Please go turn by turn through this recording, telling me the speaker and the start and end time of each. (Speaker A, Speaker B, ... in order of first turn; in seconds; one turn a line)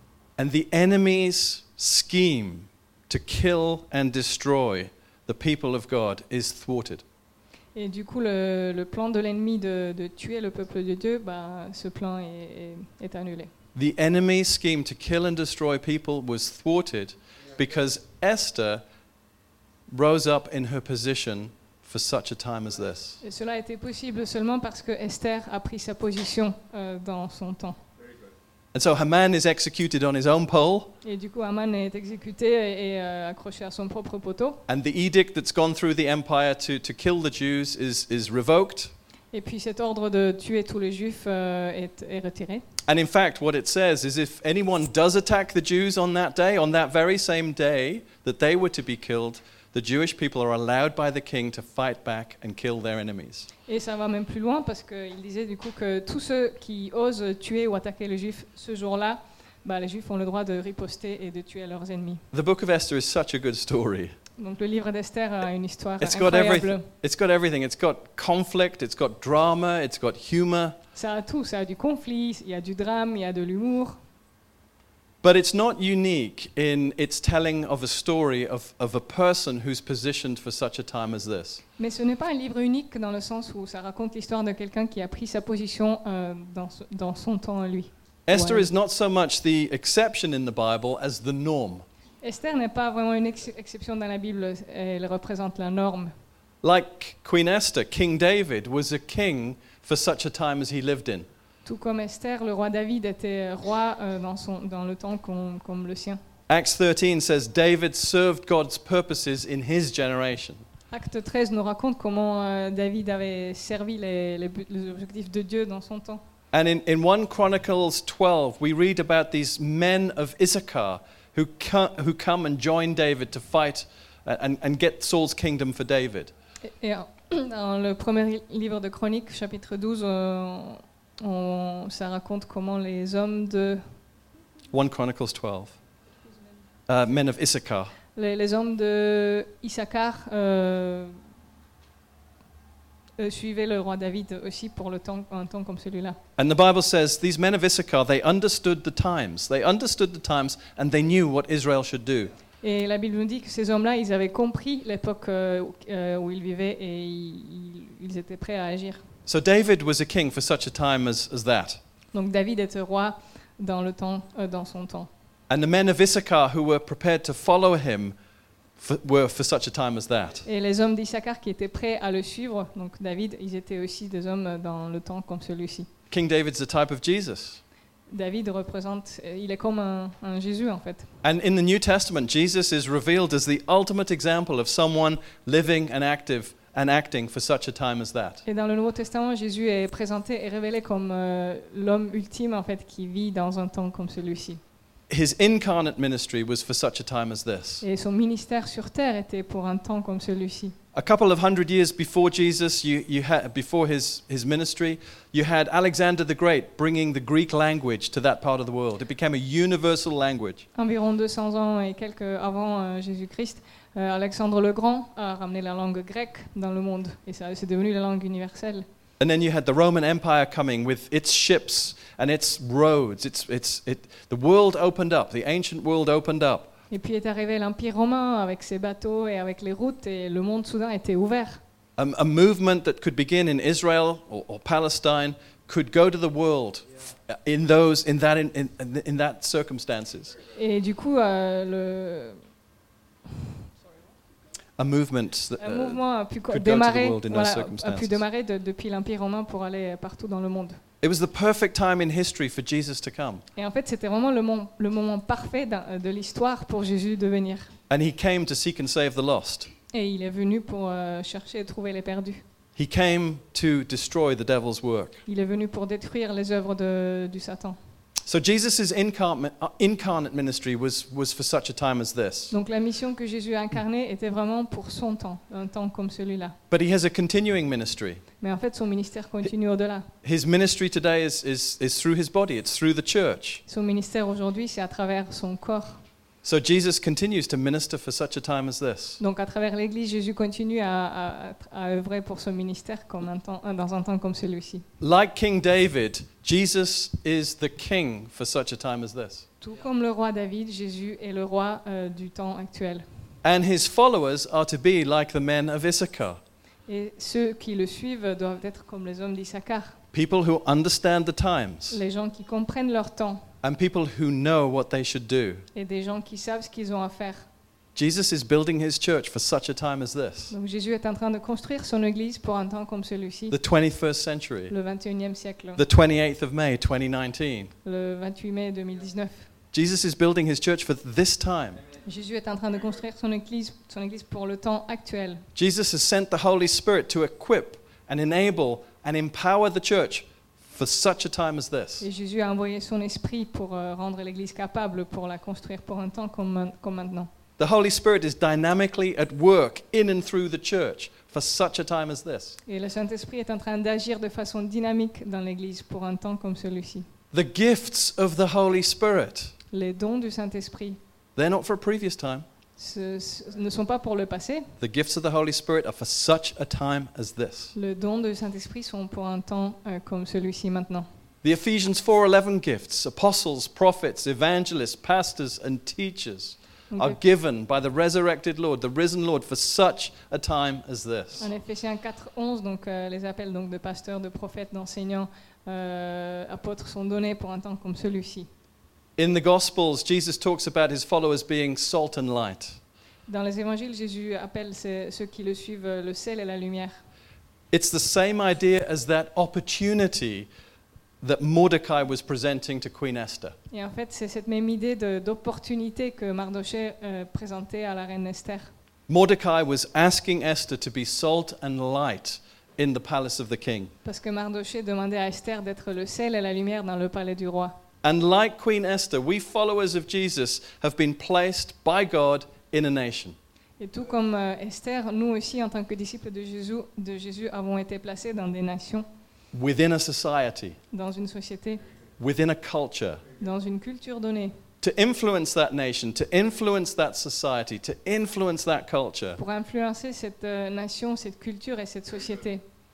Speaker A: 0.4-7.0
Speaker B: 7.7-13.5
Speaker A: 13.7-18.8
Speaker A: 19.9-23.2
Speaker B: 23.2-27.8
Speaker A: 28.7-30.9
Speaker B: 31.0-34.6
Speaker A: 34.7-38.9
Speaker B: 39.3-42.6
Speaker A: 42.9-53.5
Speaker B: 53.7-62.2
Speaker A: 62.3-64.2
Speaker B: 64.4-66.9
Speaker A: 66.0-70.8
Speaker B: 70.9-74.0
Speaker A: 75.2-81.6
Speaker B: 81.8-88.7
Speaker A: 88.3-91.8
Speaker B: 92.2-96.1
Speaker A: 96.6-101.3
Speaker B: 101.6-106.2
Speaker A: 106.5-110.6
Speaker B: 110.9-116.2
Speaker A: 116.5-126.3
Speaker B: 126.6-133.9
Speaker A: 134.7-135.8
Speaker A: 136.9-137.9
Speaker B: 138.1-141.2
Speaker B: 143.2-146.2
Speaker A: 146.4-152.3
Speaker B: 152.6-159.0
Speaker A: 159.3-161.8
Speaker B: 162.1-165.1
Speaker A: 165.5-168.2
Speaker A: 168.8-170.4
Speaker B: 170.4-175.9
Speaker A: 176.1-177.6
Speaker B: 178.1-181.1
Speaker A: 181.2-188.4
Speaker B: 188.4-194.6
Speaker A: 195.1-197.8
Speaker B: 197.8-200.8
Speaker A: 200.9-210.7
Speaker B: 210.7-218.8
Speaker A: 219.2-226.7
Speaker B: 226.9-231.6
Speaker A: 232.0-240.3
Speaker B: 240.5-242.4
Speaker A: 244.8-248.2
Speaker B: 245.6-250.8
Speaker A: 251.0-253.4
Speaker B: 253.5-257.7
Speaker A: 257.9-259.7
Speaker B: 259.9-262.4
Speaker A: 262.8-265.2
Speaker B: 265.2-267.8
Speaker A: 268.2-272.5
Speaker B: 272.5-276.6
Speaker A: 276.7-278.2
Speaker B: 278.4-280.1
Speaker A: 280.2-283.6
Speaker B: 283.7-286.0
Speaker A: 286.4-289.2
Speaker B: 289.2-294.9
Speaker A: 295.0-299.5
Speaker B: 299.6-303.1
Speaker A: 303.4-306.4
Speaker B: 306.9-310.0
Speaker A: 310.1-312.0
Speaker B: 311.9-313.5
Speaker A: 313.6-315.6
Speaker B: 315.7-317.4
Speaker A: 317.9-320.5
Speaker B: 320.5-323.6
Speaker A: 323.5-324.7
Speaker B: 324.7-325.8
Speaker A: 325.8-327.7
Speaker B: 327.8-329.5
Speaker A: 329.7-331.8
Speaker B: 332.0-335.4
Speaker A: 335.5-342.1
Speaker B: 342.0-347.3
Speaker A: 347.6-352.6
Speaker B: 352.6-357.1
Speaker A: 357.3-359.5
Speaker B: 359.7-361.0
Speaker A: 361.4-362.4
Speaker B: 362.8-364.7
Speaker A: 364.8-367.7
Speaker B: 367.7-371.1
Speaker A: 371.4-381.4
Speaker B: 376.9-377.2
Speaker B: 381.4-388.5
Speaker A: 389.2-392.8
Speaker B: 393.3-397.0
Speaker A: 397.7-400.5
Speaker A: 401.2-403.5
Speaker B: 403.7-408.7
Speaker A: 409.1-413.9
Speaker B: 414.0-417.8
Speaker A: 418.0-423.4
Speaker B: 423.8-429.1
Speaker A: 429.5-430.8
Speaker B: 430.9-431.8
Speaker A: 432.2-433.2
Speaker B: 433.4-434.6
Speaker A: 434.8-439.4
Speaker B: 439.4-442.6